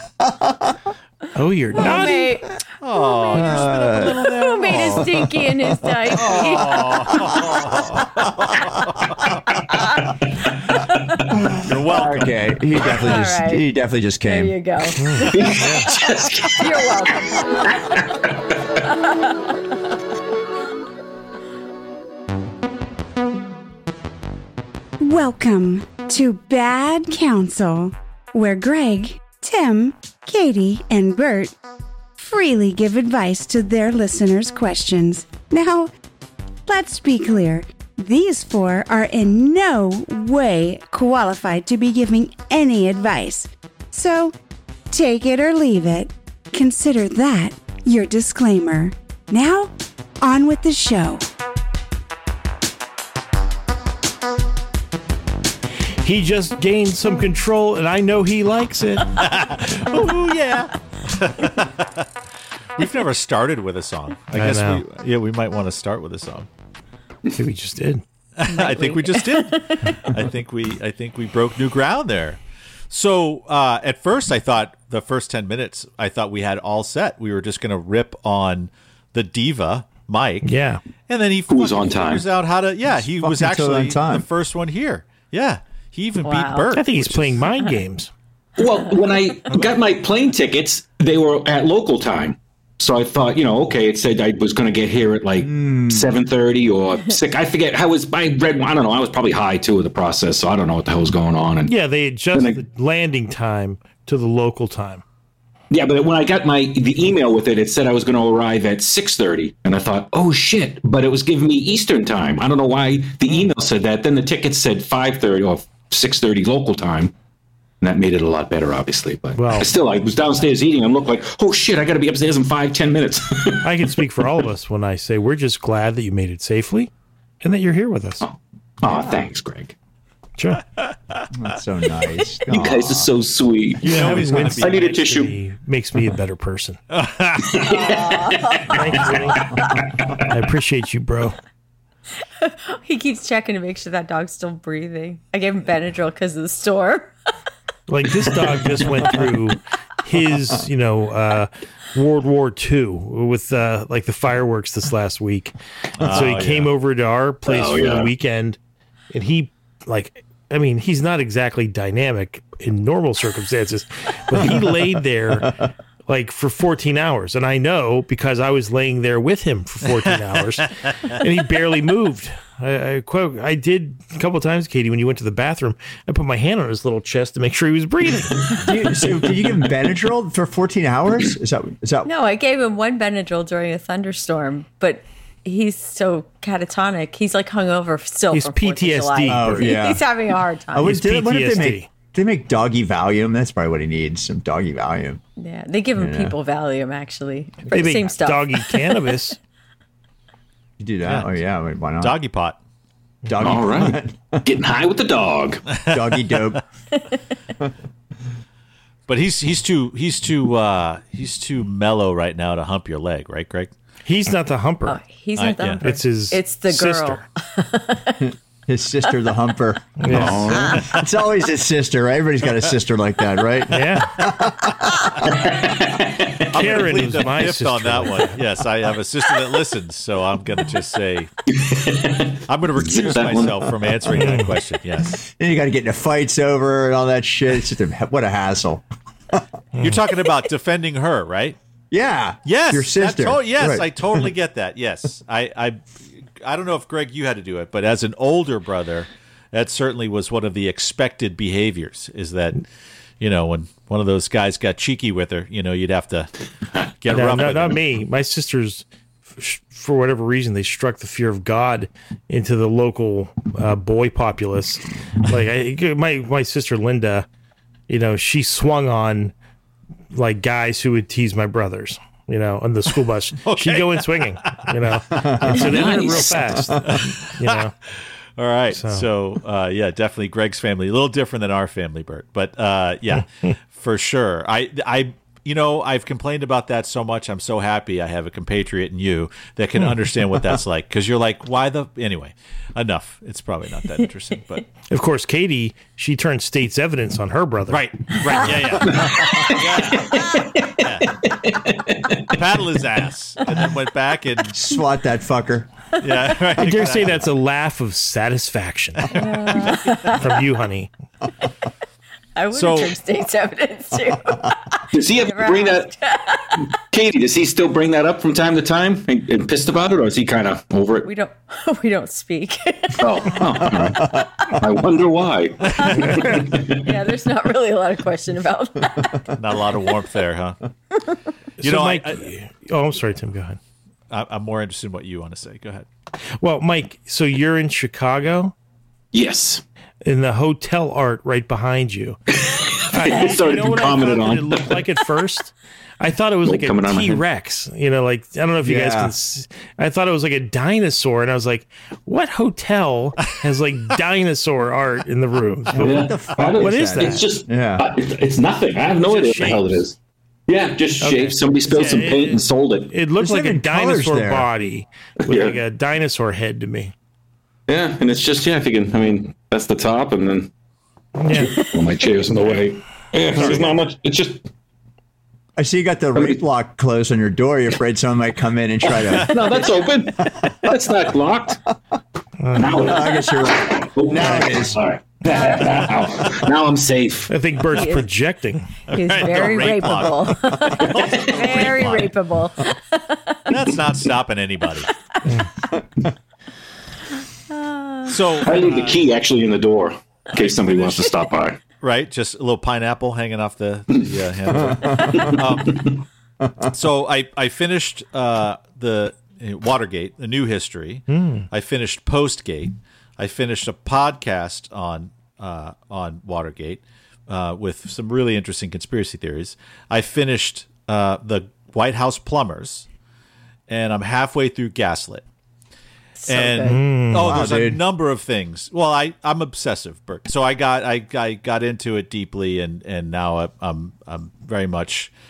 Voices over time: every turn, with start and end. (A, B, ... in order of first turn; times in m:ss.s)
0:00.2-0:00.8 A
0:01.4-0:02.3 B
0:01.8-0:07.5 C
0:02.8-0:05.3 D
0:03.3-0:06.1 A
0:06.1-0:09.3 D
0:09.7-0:11.4 C
0:11.6-0:12.3 D
0:11.7-0:14.6 A
0:12.9-0:13.6 C
0:14.2-0:18.0 C
0:15.0-0:15.9 B
0:15.2-0:18.8 E
0:18.8-0:19.6 C
0:25.0-0:31.5 F
0:32.2-0:35.9 F
0:36.7-0:44.3 F
0:44.9-0:51.3 F
0:56.0-0:59.1 B
0:59.2-1:02.1 D
1:02.8-1:06.5 D
1:04.3-1:04.8 B
1:07.3-1:08.0 B
1:08.4-1:20.5 D
1:08.5-1:10.1 C
1:20.4-1:20.8 B
1:21.1-1:27.4 D
1:21.5-1:22.2 E
1:22.9-1:24.3 A
1:26.2-1:26.7 C
1:26.7-1:28.1 B
1:28.6-1:41.7 E
1:29.5-1:29.8 D
1:35.4-1:36.1 A
1:41.7-1:45.0 B
1:42.3-1:42.6 E
1:45.7-1:57.1 E
1:57.8-2:03.7 E
1:59.4-1:59.7 B
2:03.6-2:06.9 B
2:07.4-2:08.2 B
2:08.2-2:09.8 E
2:10.4-2:10.6 B
2:11.3-2:13.1 A
2:12.5-2:15.3 E
2:13.8-2:14.9 D
2:13.8-2:16.8 B
2:16.9-2:17.7 D
2:17.4-2:20.3 E
2:17.6-2:19.1 C
2:18.7-2:19.4 B
2:20.2-2:21.4 B
2:22.4-2:27.1 C
2:27.9-2:38.6 B
2:36.0-2:36.7 D
2:37.5-2:38.1 E
2:39.1-2:58.5 B
2:58.6-3:02.1 A
3:02.0-3:11.0 C
3:08.3-3:09.7 B
3:09.2-3:10.0 A
3:10.7-3:15.2 A
3:10.8-3:11.9 B
3:15.4-3:19.0 C
3:16.0-3:16.4 A
3:17.7-3:19.4 B
3:20.8-3:22.2 A
3:21.0-3:21.4 D
3:22.0-3:22.6 D
3:23.3-3:24.4 A
3:23.4-3:25.6 E
3:25.9-3:26.6 A
3:29.1-3:33.7 D
3:34.1-3:35.0 B
3:34.9-3:38.2 C
3:35.4-3:35.8 D
3:35.8-3:37.2 B
3:38.2-3:45.3 A
3:40.0-3:40.6 B
3:40.1-3:40.8 E
3:43.7-3:44.2 B
3:45.2-3:46.6 E
3:46.5-3:51.3 D
3:46.5-3:48.4 B
3:51.5-3:53.7 E
3:52.5-3:55.2 D
3:54.1-3:54.5 B
3:55.1-3:58.8 A
3:59.8-4:01.6 D
4:01.9-4:04.3 A
4:02.5-4:12.6 D
4:13.2-4:16.3 D
4:17.0-4:17.8 D
4:17.1-4:18.8 B
4:19.4-4:27.3 B
4:27.9-4:29.3 B
4:30.1-4:37.7 B
4:33.4-4:34.6 D
4:35.1-4:35.6 A
4:35.4-4:36.5 E
4:36.8-4:37.7 D
4:38.4-4:54.6 D
4:38.7-4:39.1 B
4:54.9-4:58.6 B
4:57.7-5:01.2 D
4:58.8-5:02.4 E
5:02.3-5:04.6 D
5:04.5-5:05.7 A
5:06.0-5:07.2 D
5:06.6-5:09.1 B
5:09.1-5:10.4 C
5:09.5-5:09.9 D
5:10.2-5:10.9 B
5:12.4-5:16.7 C
5:12.5-5:13.0 D
5:14.9-5:15.9 E
5:16.9-5:21.1 E
5:21.0-5:23.6 C
5:23.0-5:26.9 E
5:23.8-5:24.2 A
5:25.8-5:29.2 C
5:29.4-5:30.6 D
5:31.6-5:32.3 D
5:31.6-5:33.6 B
5:34.1-5:35.9 D
5:36.4-5:38.6 B
5:39.1-5:39.6 E
5:40.0-5:42.2 B
5:42.3-5:44.8 E
5:42.8-5:57.2 B
5:46.4-5:47.2 E
5:48.6-5:49.1 A
5:55.8-5:57.9 A
5:55.8-6:00.0 E
5:59.0-5:59.8 B
6:00.5-6:02.9 E
6:01.0-6:06.9 B
6:03.2-6:04.5 A
6:05.2-6:05.6 E
6:07.7-6:10.5 E
6:11.2-6:11.6 B
6:11.3-6:14.4 E
6:15.6-6:19.5 A
6:19.2-6:21.6 E
6:22.4-6:22.8 B
6:22.6-6:27.3 E
6:22.7-6:24.8 A
6:25.3-6:25.9 C
6:26.0-6:26.4 D
6:27.3-6:28.7 B
6:27.7-6:28.1 C
6:28.9-6:32.2 D
6:28.9-6:33.5 C
6:31.0-6:31.7 E
6:33.5-6:34.9 D
6:37.5-6:38.2 C
6:38.1-6:39.1 D
6:38.4-6:41.6 E
6:40.3-6:41.2 D
6:41.8-6:46.0 D
6:44.5-6:45.0 A
6:45.1-6:46.0 E
6:46.6-7:02.9 D
6:51.1-6:51.5 B
7:03.7-7:05.2 D
7:06.2-7:06.8 C
7:06.3-7:15.1 D
7:06.7-7:07.5 B
7:07.2-7:07.8 A